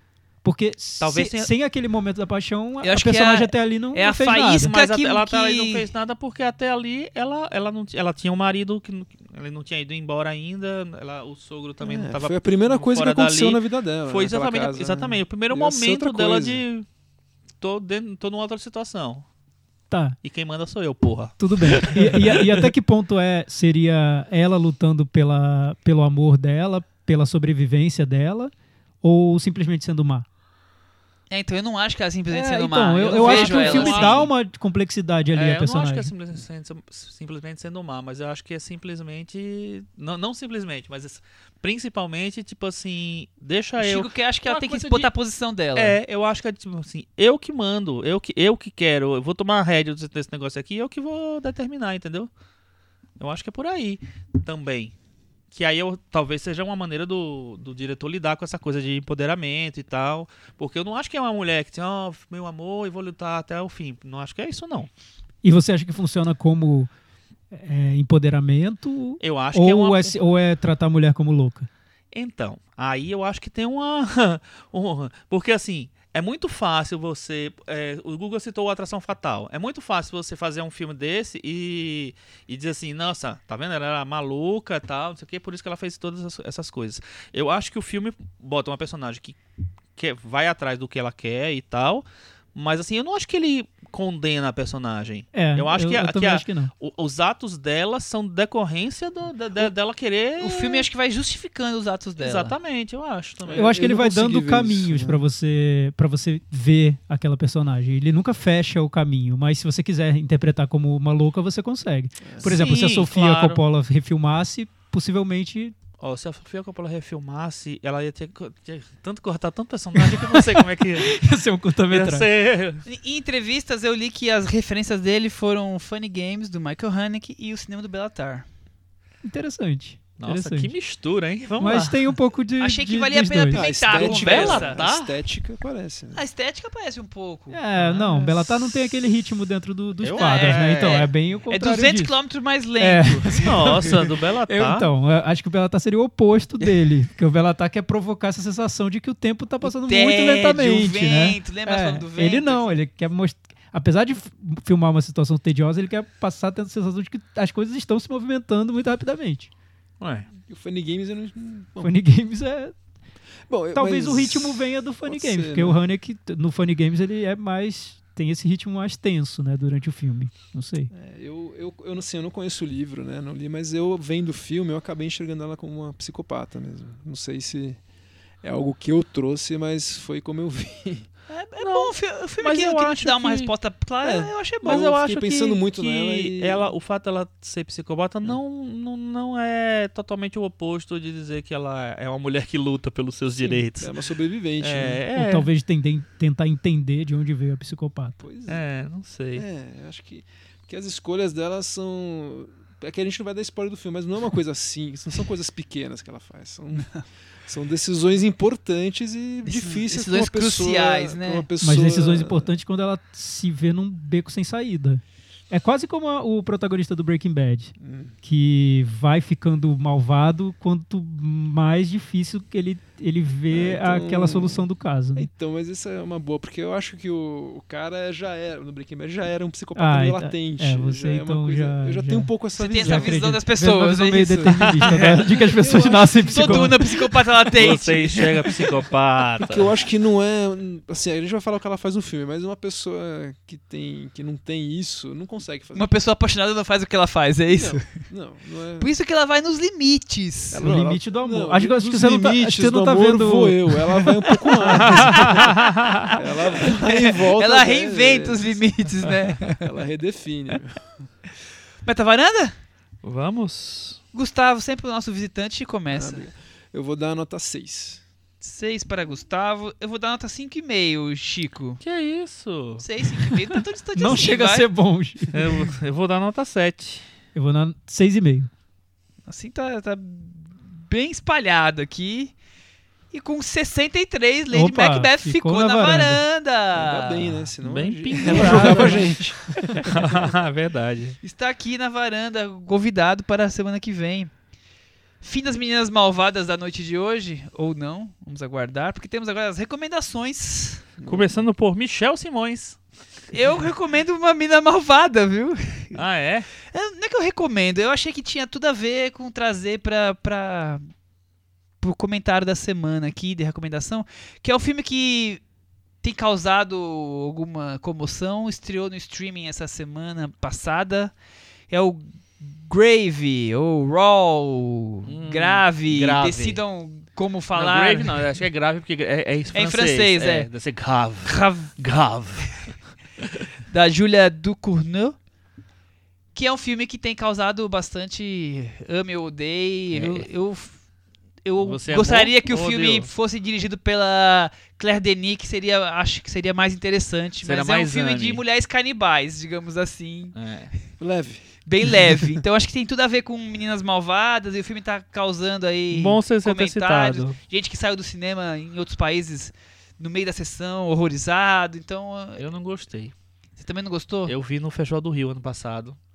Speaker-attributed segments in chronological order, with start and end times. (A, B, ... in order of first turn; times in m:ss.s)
0:00.4-0:04.7 A
0:01.0-0:01.5 B
0:02.8-0:05.9 C
0:04.6-0:16.9 B
0:11.8-0:16.6 D
0:17.6-0:19.3 B
0:19.9-0:20.2 A
0:20.2-0:22.7 B
0:21.4-0:28.5 A
0:29.0-0:30.3 A
0:31.3-0:34.2 C
0:32.3-0:36.1 A
0:33.0-0:34.3 B
0:35.3-0:45.1 B
0:43.8-0:46.0 C
0:45.8-0:52.3 B
0:53.2-0:54.9 B
0:55.5-1:04.9 B
1:05.4-1:06.9 A
1:07.5-1:11.7 A
1:09.2-1:10.2 B
1:12.1-1:29.4 B
1:30.0-1:40.9 B
1:35.3-1:36.7 A
1:40.4-1:42.6 C
1:42.2-1:43.8 B
1:43.4-1:45.2 D
1:43.5-1:55.8 A
1:52.2-1:52.6 D
1:52.4-1:53.6 B
1:56.0-2:01.2 B
2:00.0-2:02.3 A
2:01.9-2:02.8 B
2:02.8-2:08.5 C
2:09.2-2:10.7 A
2:10.2-2:12.1 B
2:11.6-2:13.8 A
2:12.6-2:14.8 C
2:13.5-2:16.2 D
2:13.9-2:15.1 B
2:16.1-2:18.2 C
2:17.5-2:22.2 A
2:17.8-2:18.1 B
2:20.0-2:21.1 B
2:20.2-2:23.2 C
2:22.8-2:39.5 A
2:23.2-2:24.9 B
2:29.6-2:32.7 C
2:40.0-2:40.3 B
2:40.4-2:42.0 D
2:41.8-2:42.8 A
2:43.5-2:45.8 D
2:43.8-2:50.9 A
2:50.9-2:57.8 D
2:58.4-3:01.1 D
3:01.3-3:04.9 C
3:01.6-3:03.5 B
3:04.0-3:06.7 D
3:04.6-3:13.9 B
3:13.4-3:15.0 D
3:14.6-3:15.5 B
3:15.1-3:18.2 A
3:18.2-3:18.6 D
3:18.5-3:19.4 B
3:19.4-3:26.9 D
3:26.8-3:27.0 C
3:27.5-3:32.5 D
3:29.4-3:31.5 C
3:31.6-3:45.3 A
3:37.8-3:38.2 D
3:43.5-3:53.4 D
3:49.8-3:56.8 A
3:52.6-3:54.7 C
3:54.5-3:55.2 B
3:55.2-3:57.0 D
3:56.2-3:58.5 C
3:57.5-3:59.7 B
3:59.4-4:05.9 D
4:05.7-4:07.9 C
4:07.5-4:08.9 D
4:08.8-4:10.7 C
4:10.5-4:18.7 D
4:10.6-4:13.7 A
4:14.6-4:15.6 C
4:14.8-4:16.1 B
4:16.1-4:19.6 C
4:19.4-4:20.8 D
4:21.8-4:22.6 C
4:23.0-4:24.0 B
4:24.1-4:26.3 C
4:25.9-4:28.0 D
4:28.4-4:31.8 C
4:31.8-4:32.8 B
4:32.8-4:34.7 C
4:34.0-4:35.7 A
4:35.3-4:37.0 B
4:37.4-4:38.5 A
4:39.3-4:42.3 C
4:43.1-4:47.3 C
4:44.5-4:46.2 A
4:46.7-4:50.3 D
4:47.6-4:49.1 B
4:48.6-4:49.0 A
4:49.9-4:51.2 B
4:51.2-4:54.3 C
4:55.2-5:00.9 C
5:01.0-5:01.5 D
5:01.0-5:02.8 B
5:03.3-5:06.0 C
5:05.9-5:06.5 B
5:06.7-5:10.9 C
5:11.8-5:15.4 C
5:16.0-5:21.1 C
5:21.7-5:28.2 C
5:25.1-5:26.6 B
5:27.5-5:33.3 B
5:29.5-5:30.5 C
5:31.3-5:31.8 C
5:33.7-5:35.2 C
5:36.4-5:40.8 C
5:39.9-5:40.3 B
5:41.4-5:50.4 C
5:41.6-5:43.1 B
5:47.4-5:48.4 B
5:50.3-5:50.7 B
5:51.0-5:52.2 D
5:51.7-6:02.4 C
5:55.9-5:57.4 B
6:02.4-6:03.1 B
6:03.6-6:04.3 C
6:04.3-6:06.0 B